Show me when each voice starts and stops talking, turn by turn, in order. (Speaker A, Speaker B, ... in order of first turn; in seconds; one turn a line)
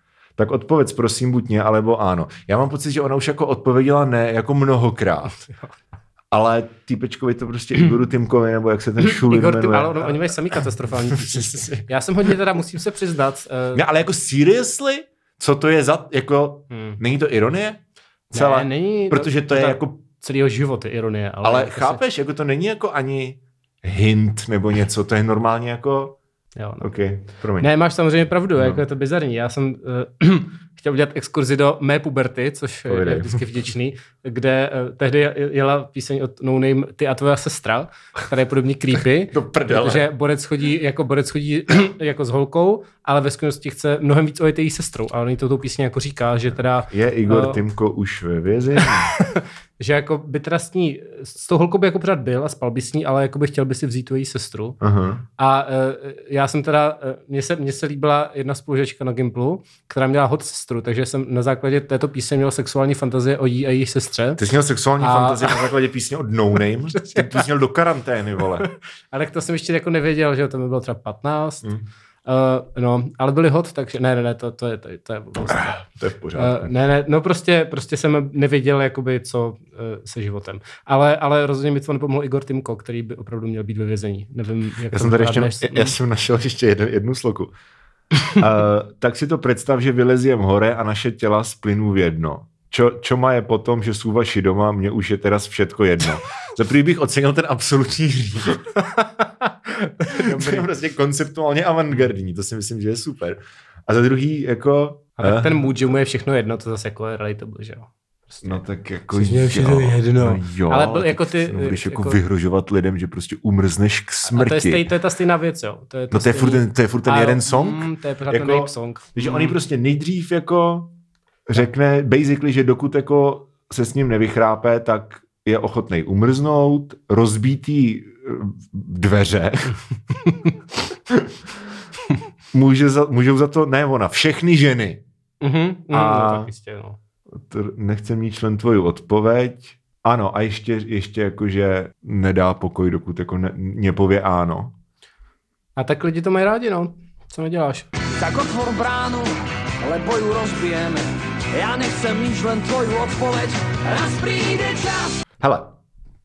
Speaker A: 0.4-5.4
Speaker A: 6.3-11.9
Speaker B: 9.0-13.8
Speaker A: 13.7-20.0
Speaker B: 16.7-17.0
Speaker B: 18.3-22.0
Speaker A: 21.4-26.2
Speaker B: 26.6-26.9
Speaker A: 26.8-27.7
Speaker B: 27.6-47.6
Speaker A: 28.6-28.8
Speaker A: 32.9-33.5
Speaker A: 39.3-40.1
Speaker A: 46.9-49.1
Speaker B: 48.8-54.8
Speaker A: 54.8-55.2
Speaker B: 55.4-64.4
Speaker A: 64.4-68.7
Speaker B: 65.0-65.7
Speaker B: 67.1-67.5
Speaker B: 68.6-71.7
Speaker B: 72.2-75.8
Speaker A: 75.4-76.7
Speaker B: 76.4-86.0
Speaker A: 84.9-87.5
Speaker A: 88.3-98.7
Speaker B: 98.8-100.7
Speaker A: 100.1-105.6
Speaker B: 105.2-112.2
Speaker A: 108.4-114.9
Speaker B: 114.3-119.6
Speaker A: 116.1-120.9
Speaker A: 121.5-129.8
Speaker A: 132.5-135.0
Speaker B: 135.4-137.0
Speaker A: 135.9-136.5
Speaker A: 137.3-144.7
Speaker B: 145.8-147.9
Speaker C: 148.2-155.2
Speaker A: 155.4-155.8